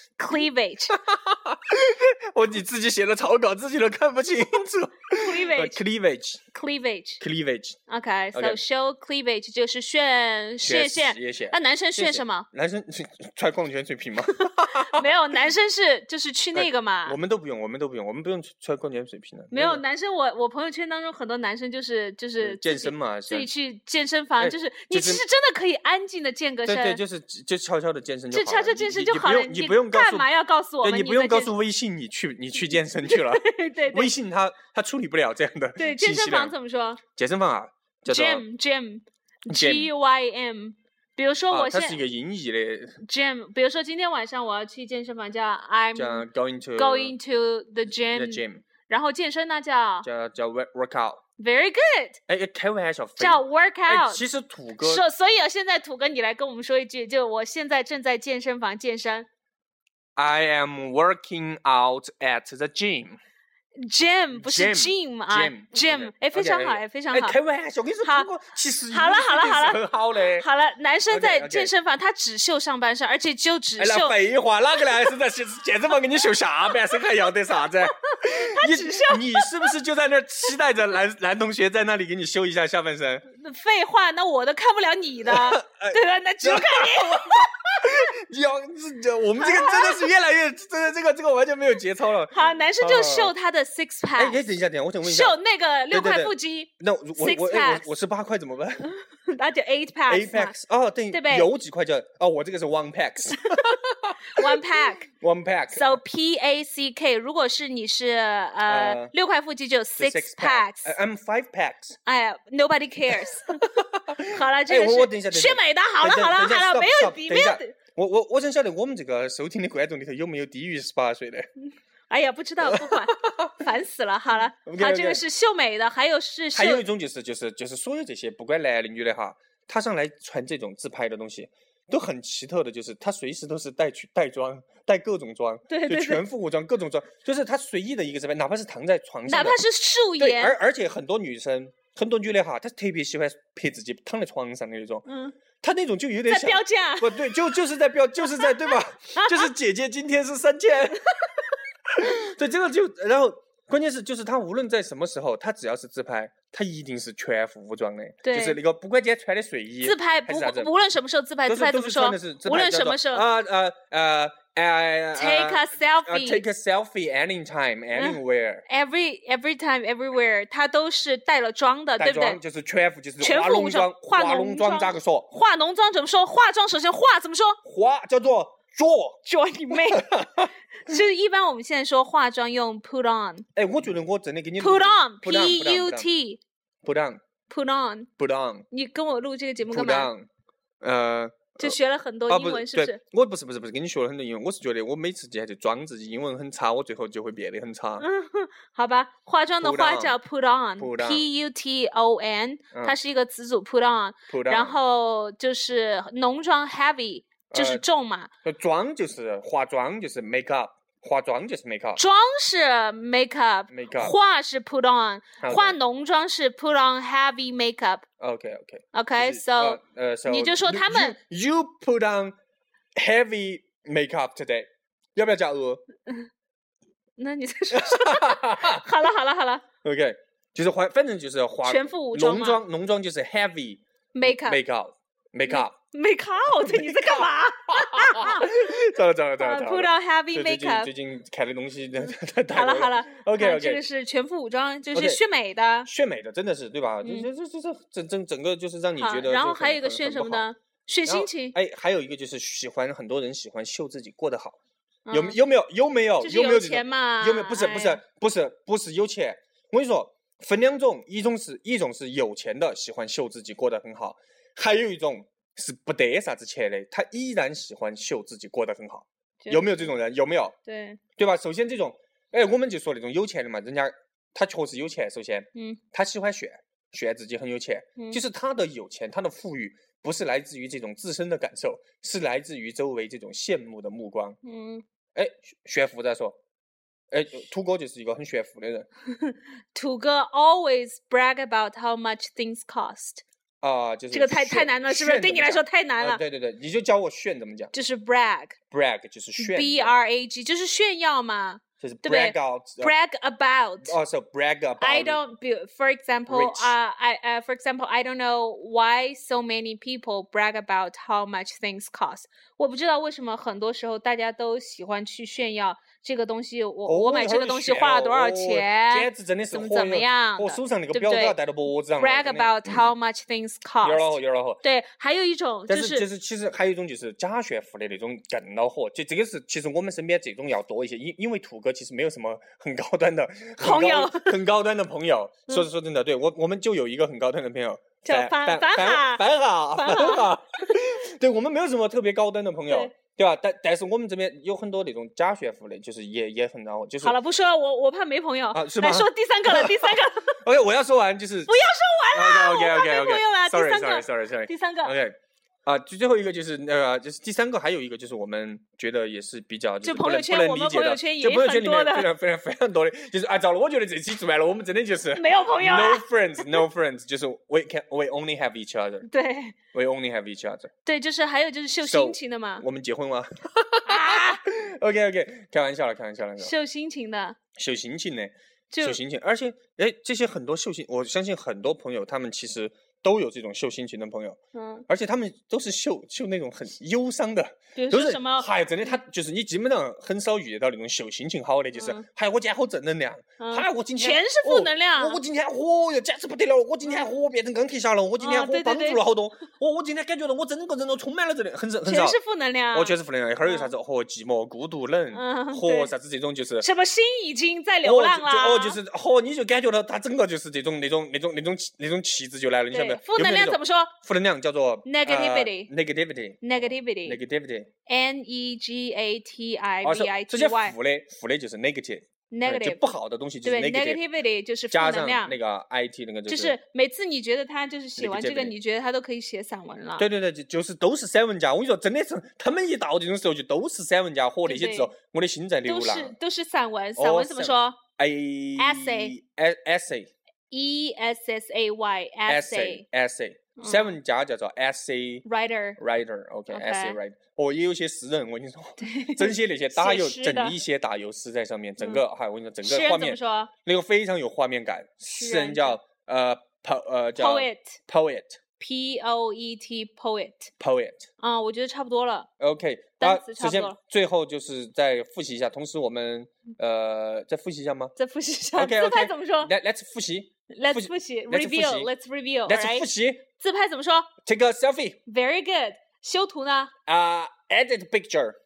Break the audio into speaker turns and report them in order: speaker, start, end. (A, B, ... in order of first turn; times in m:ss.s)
0:00.2-0:01.0 A
0:00.9-0:06.4 B
0:05.1-0:05.8 A
0:06.5-0:07.2 A
0:07.2-0:07.8 B
0:07.9-0:12.5 A
0:08.3-0:08.6 B
0:10.6-0:15.1 B
0:14.3-0:17.2 A
0:16.5-0:19.8 B
0:19.5-0:27.0 A
0:22.4-0:23.5 B
0:24.4-0:25.2 B
0:26.6-0:30.3 B
0:28.3-0:31.5 A
0:30.8-0:36.5 B
0:33.0-0:34.1 A
0:35.8-0:37.0 A
0:37.2-0:38.4 B
0:38.1-0:42.0 A
0:39.5-0:39.9 B
0:41.5-0:43.0 B
0:43.0-0:50.1 A
0:45.9-0:47.2 B
0:47.9-0:48.6 B
0:50.0-0:51.2 B
0:51.4-0:52.2 A
0:52.3-0:55.0 B
0:53.2-0:54.2 A
0:54.8-0:59.3 A
1:00.2-1:03.2 B
1:03.8-1:07.4 A
1:04.3-1:10.4 B
1:08.0-1:08.3 A
1:08.9-1:14.2 A
1:11.1-1:11.7 B
1:13.8-1:23.3 B
1:14.8-1:15.0 A
1:18.3-1:19.7 A
1:23.3-1:27.5 A
1:25.2-1:33.3 B
1:29.4-1:30.0 A
1:32.3-1:34.4 A
1:34.2-1:35.4 B
1:35.0-1:37.9 A
1:35.9-1:38.9 B
1:38.8-1:40.6 A
1:40.1-1:45.9 B
1:41.1-1:41.5 A
1:44.3-1:45.1 A
1:45.7-1:50.9 A
1:48.6-1:49.1 B
1:50.0-1:52.0 B
1:52.0-1:53.7 A
1:53.8-2:01.5 B
1:54.2-1:57.7 A
2:02.1-2:06.8 A
2:02.6-2:03.5 B
2:04.6-2:05.2 B
2:06.5-2:19.6 B
2:15.7-2:16.2 A
2:19.3-2:20.6 A
2:20.2-2:25.0 B
2:25.1-2:25.4 A
2:25.6-2:31.4 B
2:26.3-2:27.4 A
2:29.2-2:29.5 A
2:31.9-2:40.7 B
2:38.2-2:38.6 A
2:39.8-2:43.2 A
2:41.4-2:48.6 B
2:45.1-2:46.4 A
2:47.9-2:52.4 A
2:52.0-2:55.3 B
2:53.2-2:57.6 A
2:57.6-2:59.2 B
2:59.2-3:00.2 A
2:59.7-3:00.5 B
3:00.8-3:03.4 A
3:03.5-3:06.1 B
3:04.6-3:06.4 A
3:06.8-3:07.2 B
3:07.5-3:08.1 A
3:08.2-3:08.6 B
3:08.7-3:10.1 A
3:09.7-3:10.3 B
3:10.8-3:11.8 B
3:11.6-3:13.0 A
3:12.3-3:18.1 B
3:18.0-3:28.3 A
3:19.6-3:20.2 B
3:20.8-3:21.3 B
3:24.3-3:24.8 B
3:27.5-3:27.8 B
3:28.4-3:32.0 B
3:32.0-3:38.0 A
3:33.7-3:34.2 B
3:35.4-3:35.8 B
3:38.2-3:42.3 B
3:38.9-3:41.2 A
3:43.0-3:45.8 B
3:47.2-3:49.6 A
3:47.7-3:48.8 B
3:49.8-3:55.7 B
3:51.6-3:52.6 A
3:54.1-3:54.6 A
3:55.4-3:58.6 A
3:56.5-4:03.8 B
3:59.4-4:00.9 A
4:02.5-4:05.9 A
4:04.9-4:05.2 B
4:05.8-4:10.5 B
4:07.0-4:07.3 A
4:09.0-4:11.6 A
4:11.0-4:14.6 B
4:15.0-4:15.4 A
4:15.1-4:30.5 B
4:16.2-4:18.0 A
4:29.4-4:29.8 A
4:30.6-4:31.0 A
4:31.2-4:44.4 B
4:35.5-4:35.8 A
4:44.4-4:44.8 A
4:45.1-4:46.4 B
4:47.1-4:48.9 B
4:49.2-4:53.2 A
4:53.6-4:57.7 B
4:54.1-4:56.2 A
4:57.7-4:58.6 A
4:58.7-4:59.9 B
4:59.4-5:03.9 A
5:01.8-5:02.9 B
5:03.8-5:05.2 B
5:04.8-5:21.4 A
5:06.3-5:06.8 B
5:16.8-5:22.9 B
5:22.0-5:26.1 A
5:23.8-5:24.6 B
5:25.7-5:47.2 B
5:33.6-5:34.4 A
5:38.0-5:40.3 A
5:47.0-5:50.3 A
5:48.5-5:51.5 B
5:51.5-5:54.9 A
5:52.1-6:09.1 B
5:59.8-6:02.1 A
6:05.1-6:06.6 A
6:09.0-6:09.5 A
6:09.7-6:10.7 B
6:10.8-6:12.6 A
6:11.8-6:16.5 B
6:13.8-6:14.4 A
6:16.4-6:17.4 A
6:17.6-6:24.4 B
6:18.7-6:19.0 A
6:24.5-6:24.8 A
6:24.9-6:42.2 B
6:27.7-6:28.5 A
6:31.7-6:32.0 A
6:33.4-6:35.2 A
6:36.8-6:37.1 A
6:38.2-6:39.0 A
6:41.8-6:43.7 A
6:42.7-6:46.7 B
6:45.1-6:45.9 A
6:46.6-6:48.8 A
6:47.8-6:57.7 B
6:52.7-6:53.9 A
6:54.8-6:55.7 A
6:56.4-6:57.2 A
6:57.8-7:00.8 A
6:59.8-7:04.0 B
7:02.3-7:02.9 A
7:03.4-7:05.4 A
7:04.7-7:06.6 B
7:06.3-7:10.1 A
7:08.0-7:08.5 B
7:10.0-7:16.1 B
7:14.4-7:14.9 A
7:15.7-7:17.8 A
7:17.0-7:20.1 B
7:18.6-7:19.1 A
7:20.5-7:22.8 A
7:22.3-7:25.2 B
7:23.6-7:24.0 A
7:25.2-7:25.8 A
7:25.8-7:38.4 B
7:26.5-7:27.0 A
7:28.8-7:30.6 A
7:32.6-7:33.5 A
7:35.1-7:35.8 A
7:37.1-7:37.8 A
7:38.6-7:40.5 A
7:40.6-7:41.1 B
7:41.2-7:42.3 A
7:42.4-7:47.9 B
7:43.0-7:43.8 A
7:48.0-7:49.5 A
7:48.5-7:51.9 B
7:50.5-7:52.9 A
7:52.5-7:53.2 B
7:53.4-7:54.1 A
7:54.2-7:55.0 B
7:55.0-7:56.7 A
7:56.9-7:58.4 B